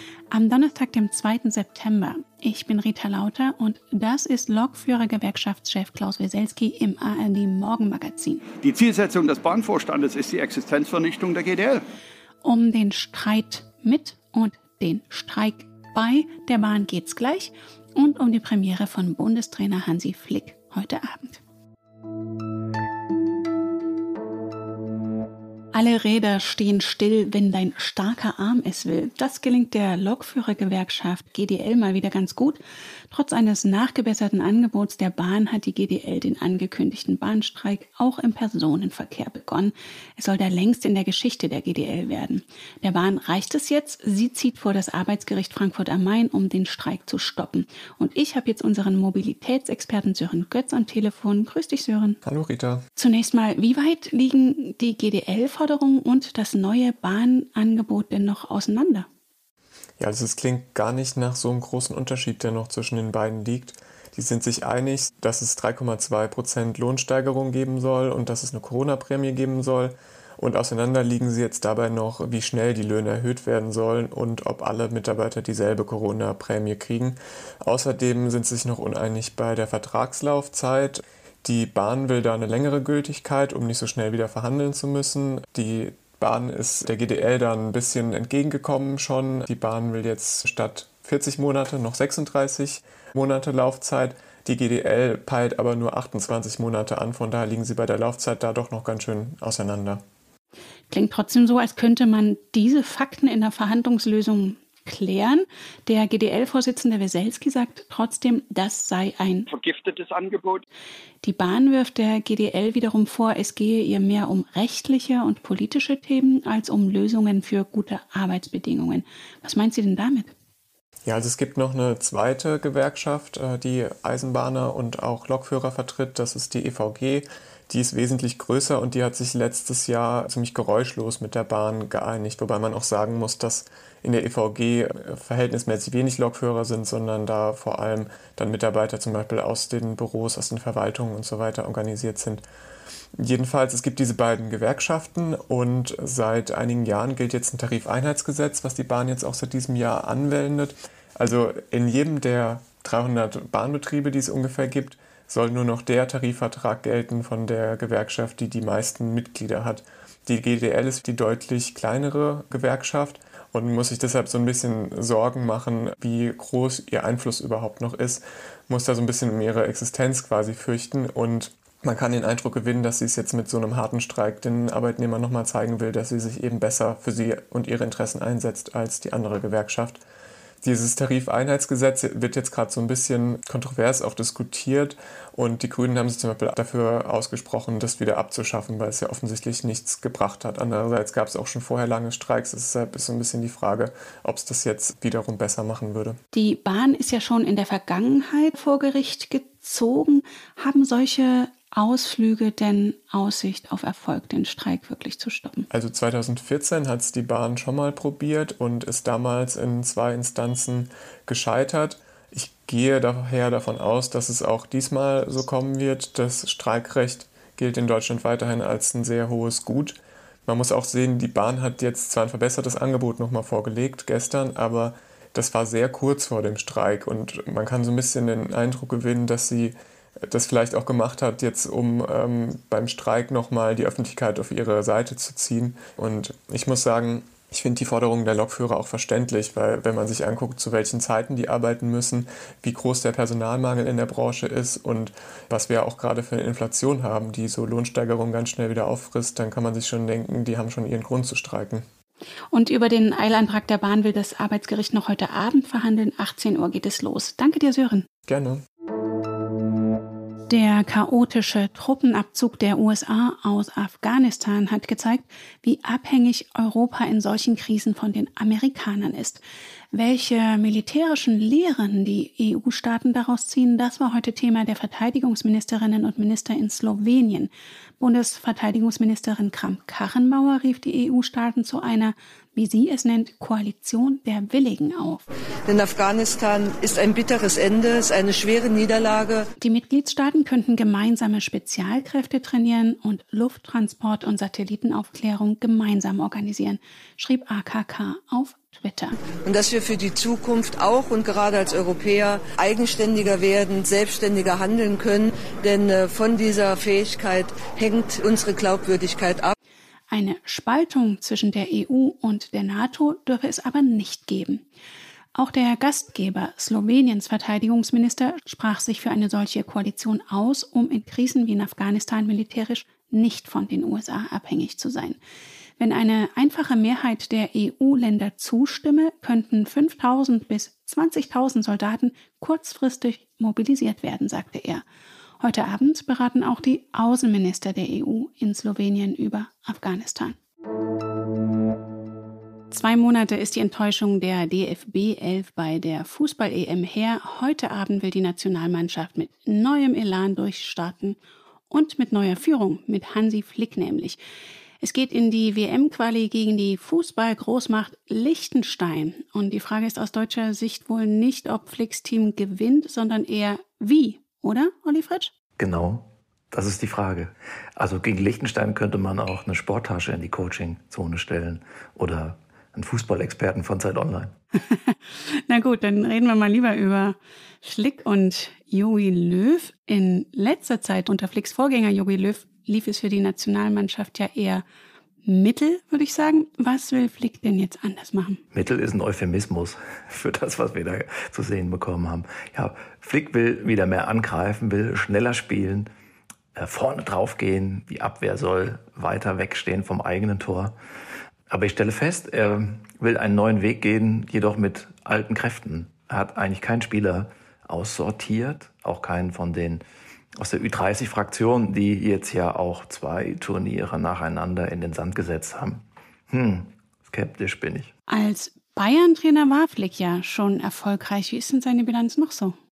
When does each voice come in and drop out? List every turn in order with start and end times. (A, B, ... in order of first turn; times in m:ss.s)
0:00.3-0:08.4 A
0:08.6-0:11.8 B
0:12.4-0:21.4 A
0:25.7-0:52.2 A
0:52.2-0:52.8 C
0:53.0-0:59.1 A
1:00.0-1:40.0 C
1:40.9-1:49.5 A
1:49.5-1:50.6 B
1:51.2-2:00.3 A
2:01.0-2:22.4 C
2:23.2-3:00.0 C
3:00.6-3:16.2 C
3:16.3-3:25.7 A
3:25.7-4:11.8 C
4:12.5-4:18.1 A
4:18.3-4:18.6 C
4:20.5-4:29.4 A
4:29.9-4:45.3 A
4:45.7-4:49.5 D
4:49.6-4:59.2 A
4:59.4-5:09.5 D
5:10.1-5:14.6 A
5:15.3-5:25.2 A
5:25.8-5:34.8 A
5:35.4-5:40.4 A
5:42.7-5:51.2 A
5:51.7-5:54.2 A
5:54.8-6:05.3 A
6:05.6-6:14.3 E
6:14.6-6:24.6 A
6:25.2-6:28.4 A
6:28.5-6:35.9 E
6:36.6-6:40.8 E
6:41.5-6:49.8 E
6:50.4-6:57.9 E
6:58.1-7:02.6 A